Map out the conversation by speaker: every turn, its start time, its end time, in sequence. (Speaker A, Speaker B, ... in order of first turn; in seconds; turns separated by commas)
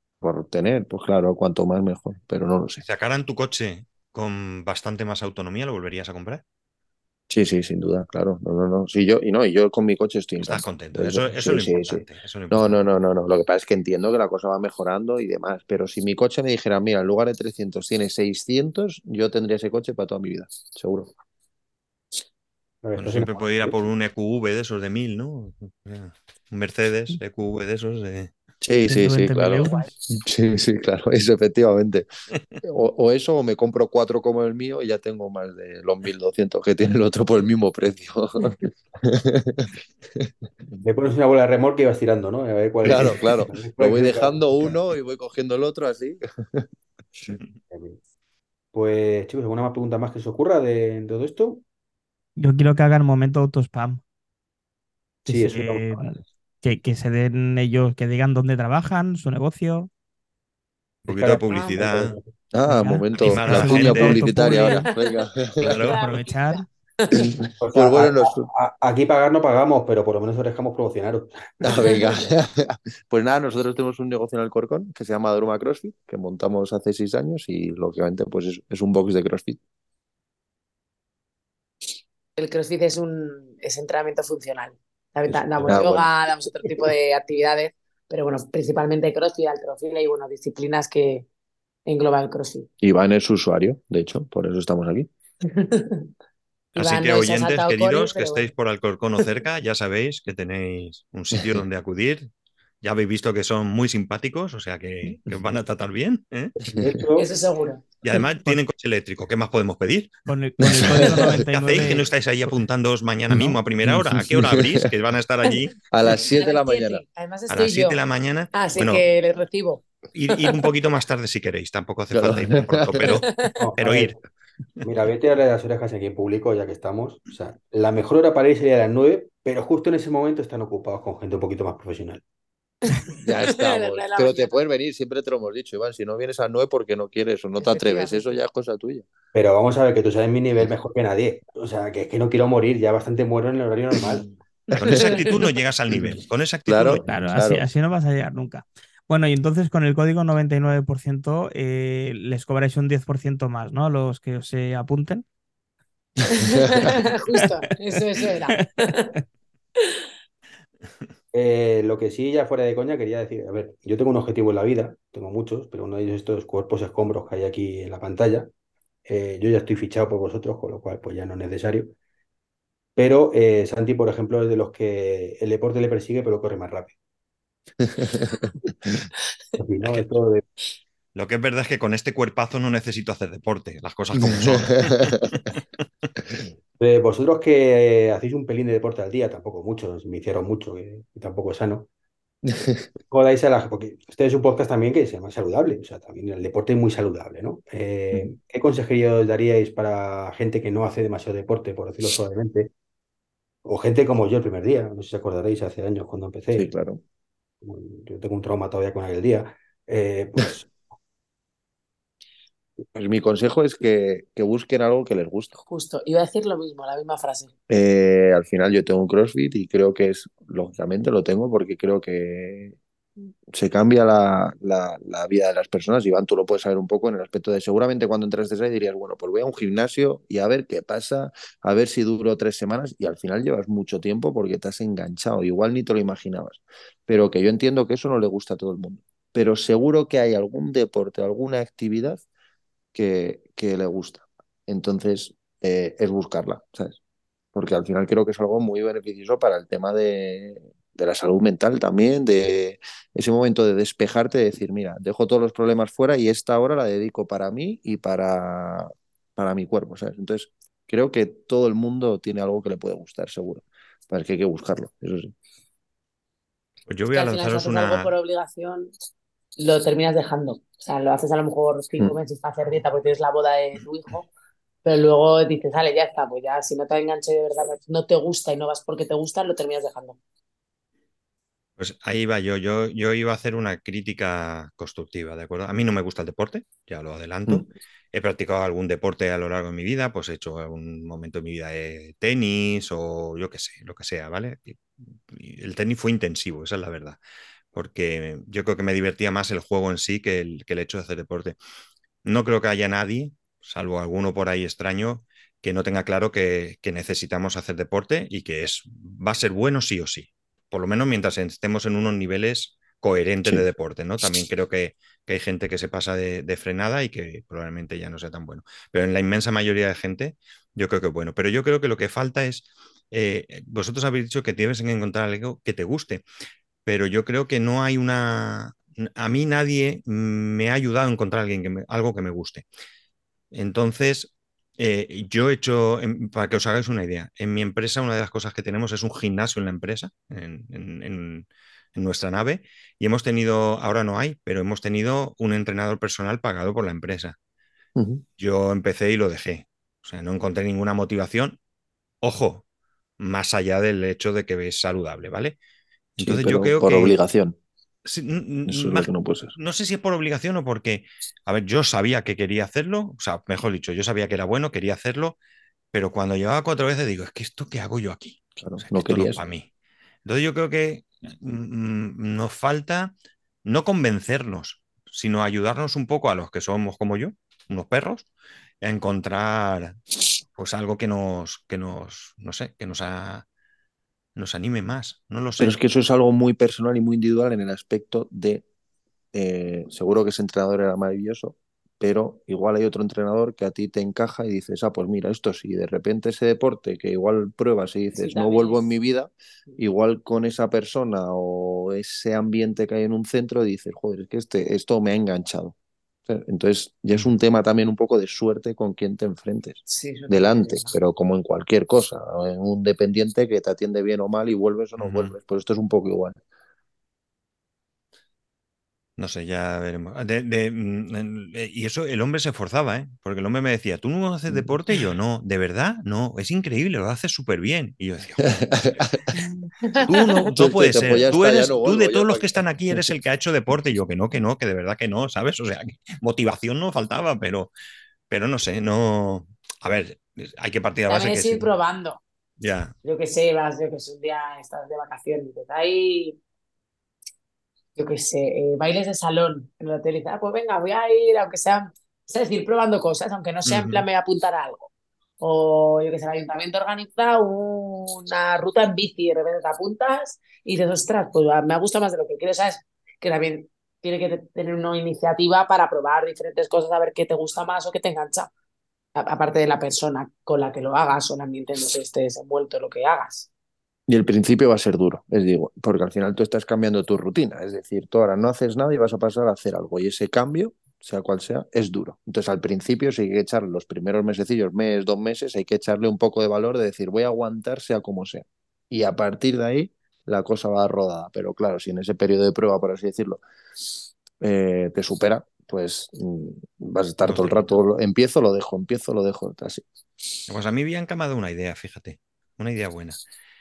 Speaker A: 0.2-2.8, Speaker B: 2.8-6.4, Speaker A: 7.3-21.1, Speaker B: 10.4-12.8, Speaker C: 22.8-23.9, Speaker B: 23.0-28.3, Speaker A: 28.6-32.1, Speaker D: 28.8-29.9, Speaker A: 32.6-40.8, Speaker C: 40.8-44.8, Speaker A: 42.8-47.4, Speaker C: 47.7-48.0, Speaker C: 48.7-51.6, Speaker D: 52.4-54.0, Speaker D: 55.2-59.9, Speaker C: 55.3-56.2, Speaker C: 61.0-62.3, Speaker B: 61.1-62.2, Speaker A: 62.5-65.8, Speaker D: 62.7-64.9, Speaker B: 63.1-64.4, Speaker E: 64.7-67.3, Speaker B: 65.6-66.0, Speaker D: 65.8-66.7, Speaker A: 67.1-68.5, Speaker C: 67.6-72.0, Speaker A: 71.6-79.6, Speaker E: 71.8-72.1, Speaker E: 82.4-91.3, Speaker A: 85.3-86.0, Speaker C: 85.7-85.9, Speaker E: 91.9-92.7, Speaker A: 92.8-95.1, Speaker E: 95.5-96.1, Speaker E: 96.8-98.5, Speaker B: 96.8-102.3, Speaker B: 102.8-106.5, Speaker C: 106.6-107.3, Speaker E: 107.2-107.8, Speaker B: 108.0-115.8, Speaker D: 110.3-112.1, Speaker A: 110.6-111.4, Speaker A: 113.3-114.9, Speaker A: 115.9-117.0, Speaker E: 116.3-118.0, Speaker B: 117.5-119.1, Speaker E: 118.5-120.7, Speaker B: 120.2-124.2, Speaker A: 122.1-123.2, Speaker E: 123.3-123.5, Speaker C: 123.6-124.2, Speaker C: 124.8-132.2, Speaker E: 132.9-134.6, Speaker A: 133.2-139.1, Speaker E: 137.6-138.4, Speaker C: 139.3-144.3, Speaker A: 143.9-144.3, Speaker E: 144.7-145.5, Speaker B: 144.7-147.1, Speaker A: 145.9-147.6, Speaker D: 147.1-155.2, Speaker E: 156.3-159.1, Speaker A: 156.4-156.8, Speaker D: 158.2-159.2, Speaker C: 161.3-168.5, Speaker C: 169.1-171.9, Speaker C: 173.0-177.0, Speaker A: 177.8-179.1, Speaker C: 179.6-180.4, Speaker B: 181.2-185.6, Speaker A: 184.2-185.4, Speaker C: 186.8-191.9, Speaker A: 192.6-192.8, Speaker C: 193.1-202.7, Speaker C: 203.7-206.7, Speaker A: 206.5-207.0, Speaker C: 207.6-210.7, Speaker A: 212.9-215.6, Speaker E: 215.7-217.5, Speaker A: 217.7-222.8, Speaker A: 223.5-242.2, Speaker A: 242.9-247.0, Speaker A: 247.5-265.3, Speaker B: 266.9-268.1, Speaker E: 267.1-268.9, Speaker E: 269.6-274.3, Speaker E: 274.8-280.2, Speaker B: 281.8-297.2, Speaker B: 297.7-301.6, Speaker B: 302.2-326.2, Speaker B: 326.9-332.6, Speaker B: 333.5-347.4, Speaker A: 348.0-348.2, Speaker B: 348.4-351.6, Speaker B: 352.2-352.6, Speaker B: 353.2-355.6, Speaker B: 356.2-357.1, Speaker A: 356.2-357.6, Speaker B: 358.1-365.4, Speaker A: 358.7-359.6, Speaker B: 365.9-369.7, Speaker A: 368.6-369.4, Speaker B: 370.2-373.1, Speaker B: 373.6-378.3, Speaker B: 378.8-380.0, Speaker B: 380.6-383.5, Speaker B: 384.4-385.8, Speaker A: 385.6-388.6, Speaker A: 389.3-405.8, Speaker E: 398.1-398.9, Speaker A: 406.3-416.4, Speaker E: 409.9-410.9, Speaker B: 415.0-415.3, Speaker B: 419.2-429.1, Speaker A: 428.6-429.2, Speaker E: 429.4-430.5, Speaker B: 430.1-437.7, Speaker A: 430.6-433.2, Speaker B: 438.3-441.7, Speaker E: 441.1-442.2, Speaker B: 442.6-442.9, Speaker E: 443.0-446.4, Speaker E: 448.0-454.9, Speaker B: 453.6-454.1, Speaker E: 455.4-468.5, Speaker E: 469.2-473.5, Speaker A: 474.1-493.4, Speaker A: 494.4-499.9, Speaker B: 497.2-497.7, Speaker B: 500.5-503.2